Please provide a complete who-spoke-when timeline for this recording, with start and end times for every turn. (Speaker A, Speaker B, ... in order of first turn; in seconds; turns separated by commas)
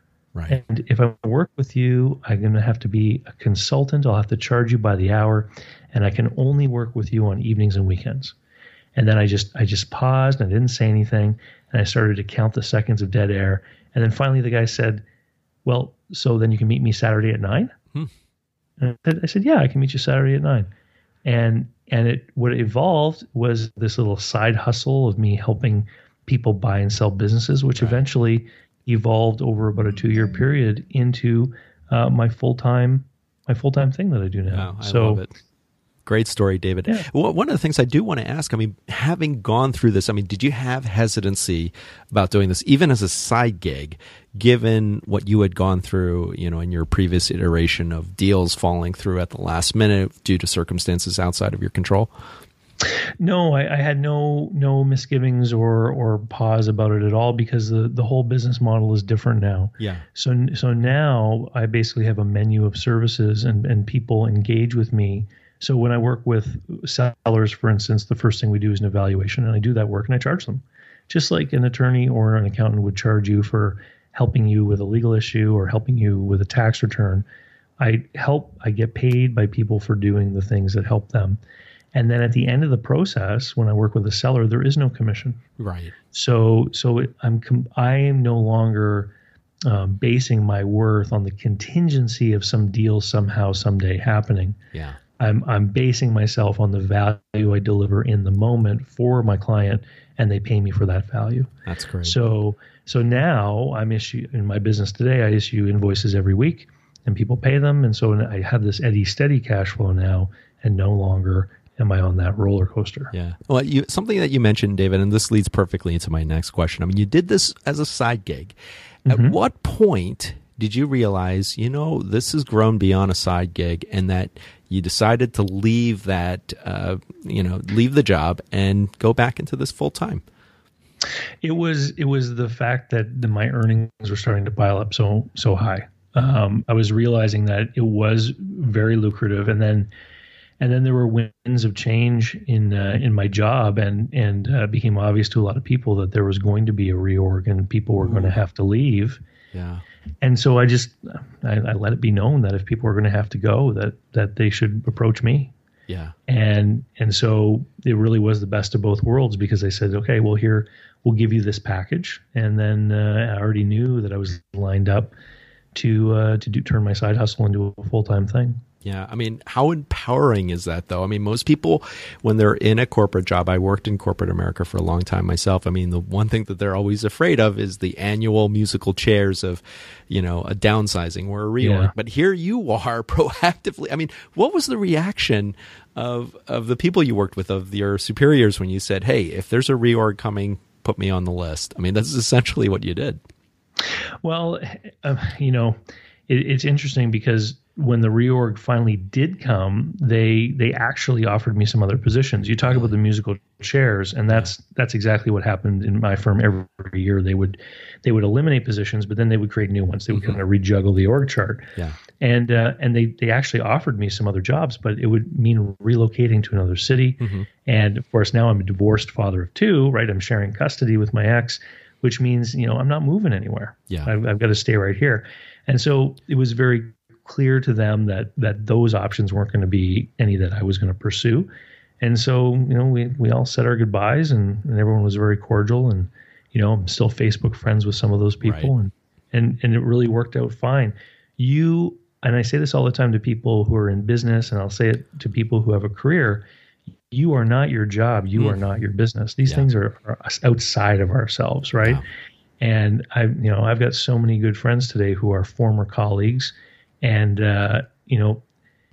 Speaker A: 0.3-0.6, Speaker B: 0.5-8.3, Speaker B: 9.0-15.0, Speaker B: 15.7-17.8, Speaker B: 18.8-20.7, Speaker B: 21.2-35.2, Speaker A: 34.5-35.3, Speaker A: 36.0-52.1, Speaker B: 53.2-77.3, Speaker A: 59.8-60.0, Speaker B: 77.8-81.4, Speaker B: 81.9-85.4, Speaker A: 85.6-86.0, Speaker B: 86.1-89.1, Speaker B: 89.7-94.6, Speaker A: 94.7-95.0, Speaker B: 95.2-101.5, Speaker A: 101.7-102.2, Speaker B: 102.0-113.1, Speaker A: 113.1-118.5, Speaker B: 119.1-119.4, Speaker A: 119.1-130.2, Speaker B: 131.4-139.9, Speaker B: 140.6-149.2, Speaker A: 148.0-148.4, Speaker A: 149.5-149.8, Speaker B: 150.2-155.5, Speaker A: 155.9-156.2, Speaker B: 156.3-165.1, Speaker B: 165.7-168.6, Speaker A: 168.8-193.2, Speaker B: 181.6-181.9, Speaker B: 194.2-195.8, Speaker B: 196.3-231.5, Speaker A: 210.1-210.4, Speaker A: 217.2-217.5, Speaker B: 232.0-246.4, Speaker A: 238.4-238.7, Speaker B: 247.1-252.0, Speaker B: 252.6-258.4